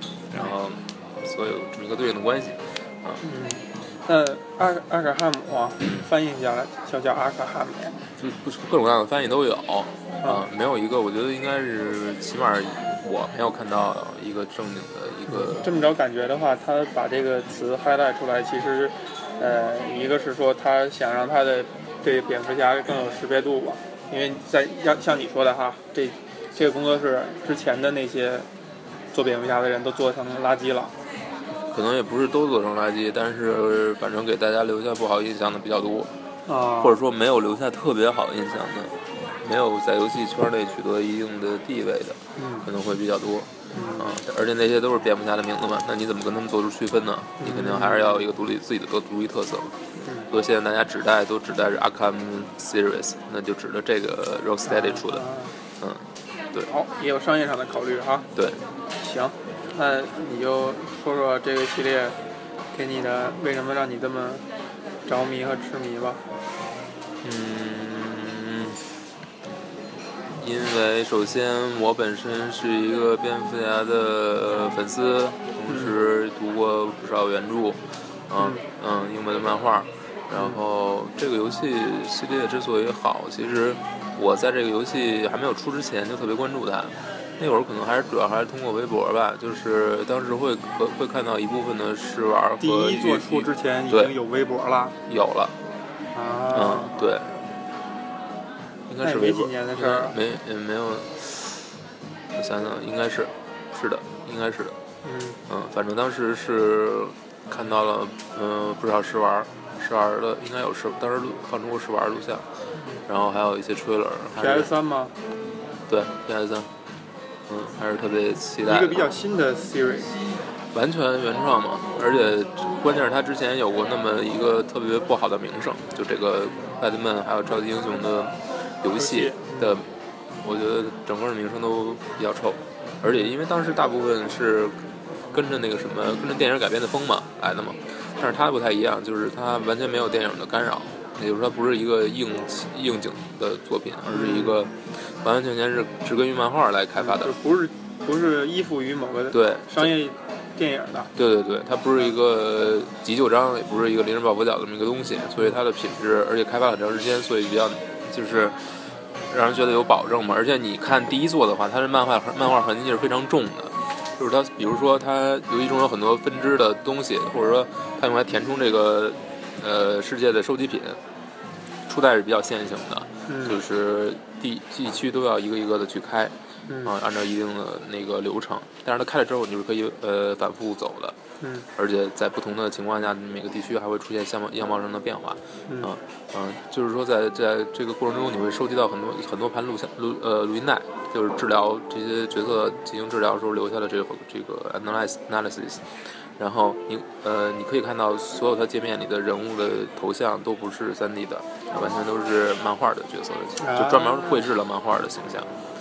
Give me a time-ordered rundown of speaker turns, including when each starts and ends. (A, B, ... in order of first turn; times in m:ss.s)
0:00.3-0:03.2 A
0:03.2-0:08.0 B
0:08.2-0:15.7 A
0:15.3-0:28.5 B
0:29.1-0:30.9 B
0:31.7-0:36.1 A
0:36.5-0:37.0 B
0:36.8-0:49.7 A
0:42.4-0:42.6 B
0:43.7-0:44.1 B
0:47.4-0:48.2 B
0:50.3-0:55.2 A
0:54.7-0:55.5 B
0:55.8-0:56.7 A
0:56.7-0:58.3 B
0:59.0-1:02.2 B
1:02.7-1:04.4 B
1:05.0-1:06.2 B
1:07.2-1:08.8 A
1:10.4-1:17.8 A
1:15.7-1:15.9 B
1:18.3-1:34.1 A
1:32.6-1:35.0 B
1:35.1-1:35.5 A
1:36.1-1:37.0 B
1:36.5-1:37.3 A
1:38.9-1:41.6 A
1:39.0-1:40.2 B
1:42.4-1:44.8 A
1:45.0-1:45.4 B
1:45.5-1:52.4 A
1:52.7-1:53.0 B
1:53.1-1:54.7 A
1:54.3-1:55.1 B
1:55.9-1:56.7 A
1:57.5-1:59.0 A
1:58.6-2:00.1 B
2:00.7-2:09.9 A
2:08.9-2:09.8 B
2:10.4-2:14.7 A
2:13.0-2:13.3 B
2:15.3-2:27.3 A
2:24.1-2:24.6 B
2:27.0-2:31.1 B
2:29.3-2:29.9 A
2:31.2-2:38.6 A
2:39.3-2:51.0 A
2:51.9-2:56.3 A
2:53.3-2:53.6 B
2:56.7-2:56.9 B
2:56.8-3:01.2 A
3:01.4-3:01.6 B
3:01.8-3:15.8 A
3:16.4-3:25.5 A
3:23.6-3:24.4 B